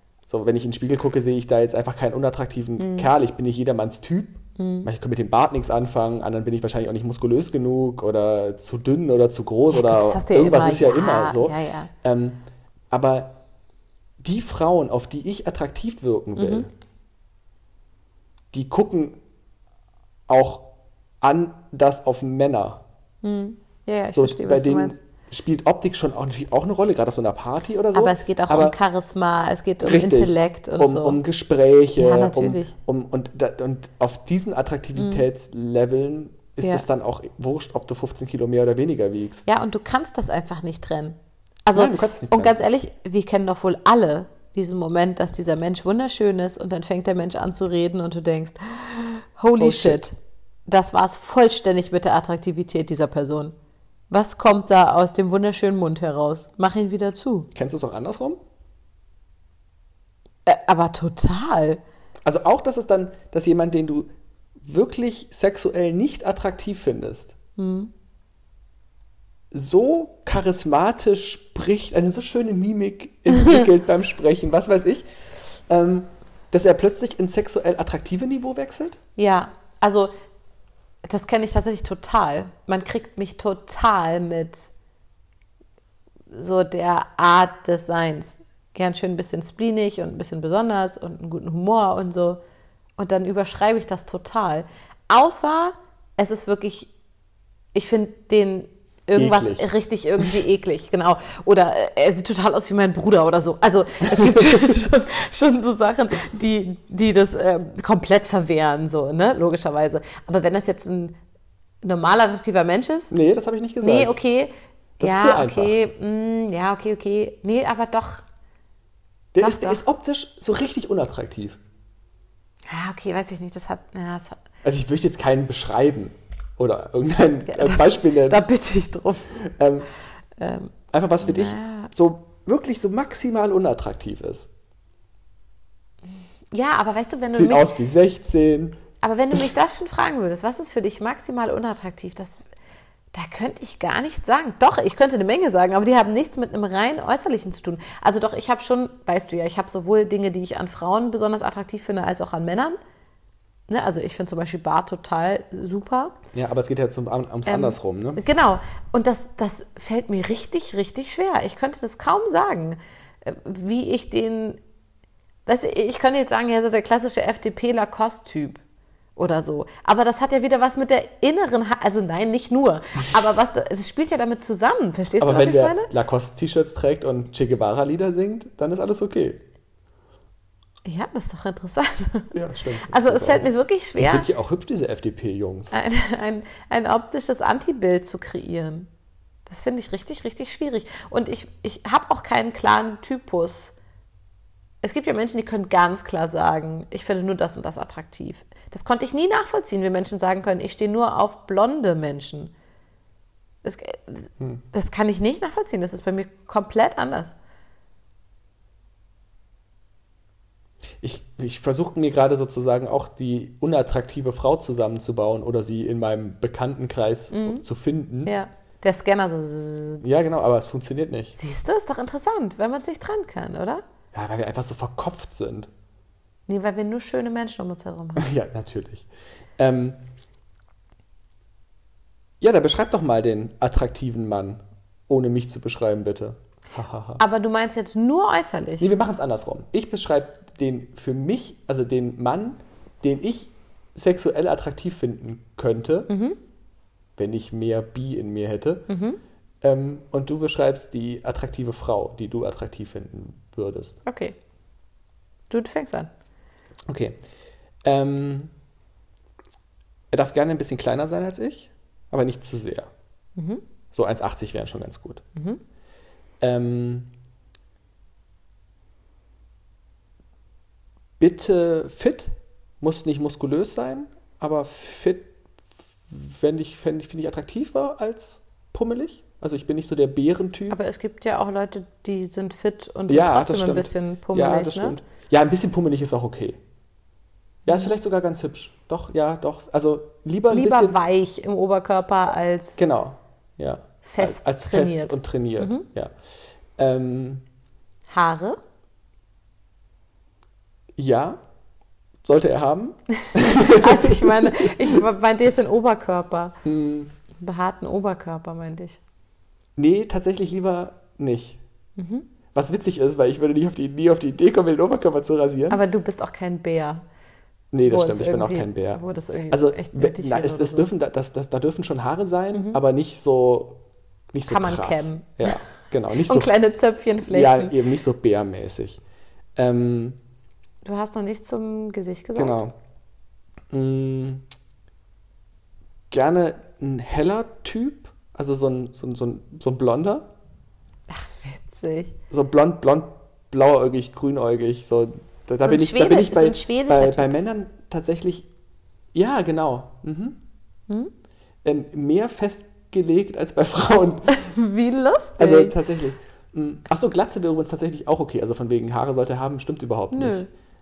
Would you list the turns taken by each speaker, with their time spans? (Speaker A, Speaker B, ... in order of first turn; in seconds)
Speaker A: 0.3-13.4, 14.2-16.7, 18.5-19.2, 20.3-20.7, 21.2-22.8, 24.1-28.8, 29.8-39.5, 41.8-42.6, 49.6-50.0, 57.5-58.4, 62.2-67.3, 69.5-75.1, 75.7-79.0, 99.2-100.4, 113.1-114.2, 115.0-115.8, 119.3-121.6, 124.6-128.4, 129.3-129.9, 130.9-134.5, 137.3-138.8, 156.3-158.2, 175.2-179.4, 182.3-185.7, 211.0-218.3, 220.0-221.4, 224.1-225.7, 228.2-229.1, 229.6-230.0, 232.4-237.2, 238.8-246.1, 247.2-248.9, 249.6-254.0, 256.9-257.2, 257.8-258.5, 260.1-262.9, 263.9-265.2, 266.4-267.1, 271.2-275.3, 276.1-280.8, 283.1-286.6, 287.6-291.0, 292.8-296.1, 296.8-297.4, 301.0-301.4, 302.2-305.0, 306.6-307.1, 309.8-311.6, 312.5-315.8, 317.7-323.8, 324.3-326.5, 327.2-329.0, 329.6-330.2, 332.4-332.8, 333.7-334.5, 336.1-340.3, 342.3-348.5, 349.1-350.4, 351.6-354.4, 355.4-360.4
Speaker B: 2.8-3.1, 4.6-4.9, 9.7-11.9, 16.4-16.7, 23.2-25.0, 27.9-31.2, 32.0-32.8, 35.0-35.2, 39.5-50.2, 50.7-53.5, 54.1-57.5, 60.5-61.8, 67.6-67.9, 73.3-73.6, 79.2-80.1, 81.0-84.7, 86.3-92.4, 93.0-96.9, 97.7-111.2, 111.8-113.1, 113.8-118.2, 119.4-119.8, 122.7-124.4, 127.5-129.3, 130.4-131.9, 136.5-137.7, 139.0-142.4, 143.1-152.8, 153.7-156.2, 157.5-164.6, 165.5-168.6, 169.2-175.9, 180.8-182.3, 182.9-184.3, 185.7-188.9, 189.5-193.7, 194.8-202.5, 203.6-207.3, 217.3-217.6, 218.2-220.0, 221.4-223.8, 226.5-228.3, 237.2-238.9, 246.1-246.4, 248.9-249.2, 254.1-254.3, 255.5-256.1, 263.4-263.6, 265.4-265.6, 280.7-285.0, 290.5-292.8, 294.0-295.9, 298.1-298.6, 303.5-306.6, 307.4-309.0, 312.0-312.3, 315.7-317.0, 317.9-320.9, 324.5-325.6, 326.1-327.7, 330.8-332.6, 341.1-342.2, 345.6-347.4, 354.3-355.8, 360.1-360.5